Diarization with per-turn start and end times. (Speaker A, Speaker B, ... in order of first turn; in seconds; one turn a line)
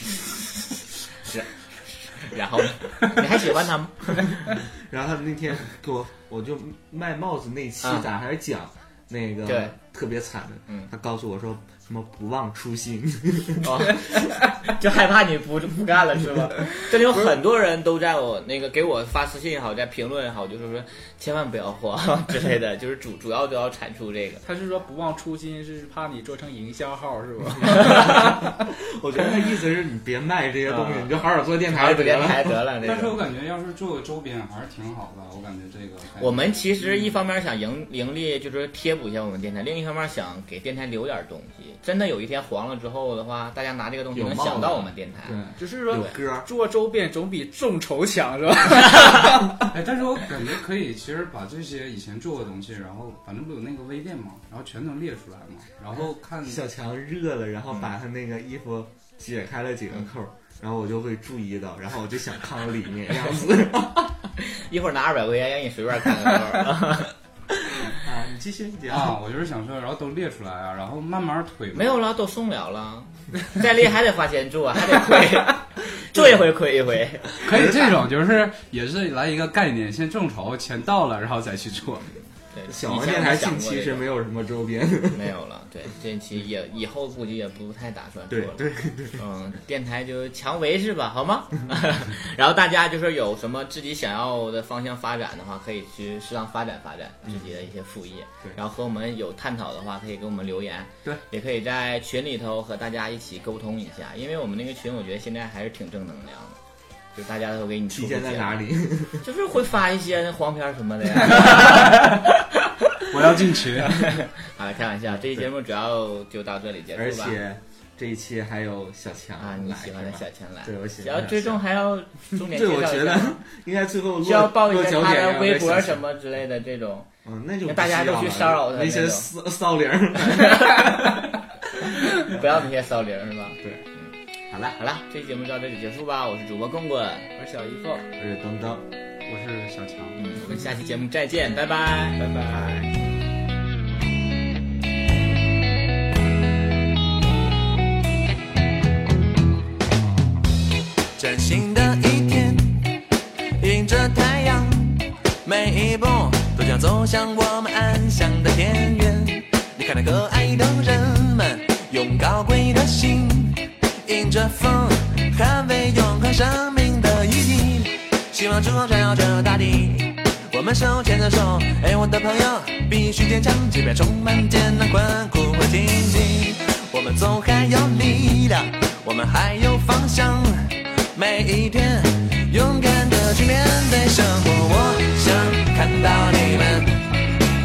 Speaker A: 1.2-4.6
Speaker B: 4.8-13.7
Speaker A: 7.8-8.1
Speaker A: 9.4-9.7
Speaker A: 13.6-24.4
Speaker C: 24.4-28.5
Speaker B: 27.7-32.5
Speaker A: 30.6-33.2
Speaker D: 32.8-36.5
Speaker A: 36.2-46.2
Speaker B: 44.1-46.5
Speaker C: 45.6-49.7
Speaker A: 49.0-49.4
Speaker D: 49.7-56.6
Speaker B: 56.4-64.3
Speaker A: 64.4-67.1
Speaker B: 67.9-69.1
Speaker D: 68.9-72.0
Speaker A: 71.7-77.5
Speaker D: 77.4-82.1
Speaker B: 77.5-78.0
Speaker A: 82.5-84.1
Speaker B: 82.7-85.3
Speaker A: 85.1-106.6
Speaker B: 88.3-89.2
Speaker A: 107.1-108.6
Speaker B: 107.9-109.2
Speaker A: 109.2-112.9
Speaker D: 111.4-112.2
Speaker D: 113.1-114.1
Speaker A: 113.7-117.4
Speaker B: 117.0-121.6
Speaker A: 119.4-123.4
Speaker B: 122.5-126.0
Speaker A: 124.2-127.1
Speaker B: 127.2-131.2
Speaker A: 127.6-129.3
Speaker A: 130.3-131.2
Speaker B: 131.8-132.4
Speaker A: 131.8-134.1
Speaker A: 134.7-137.3
Speaker C: 137.4-138.1
Speaker B: 138.2-138.9
Speaker D: 139.2-140.2
Speaker A: 140.2-142.7
Speaker C: 142.2-142.9
Speaker E: 151.2-153.0
Speaker E: 153.6-187.0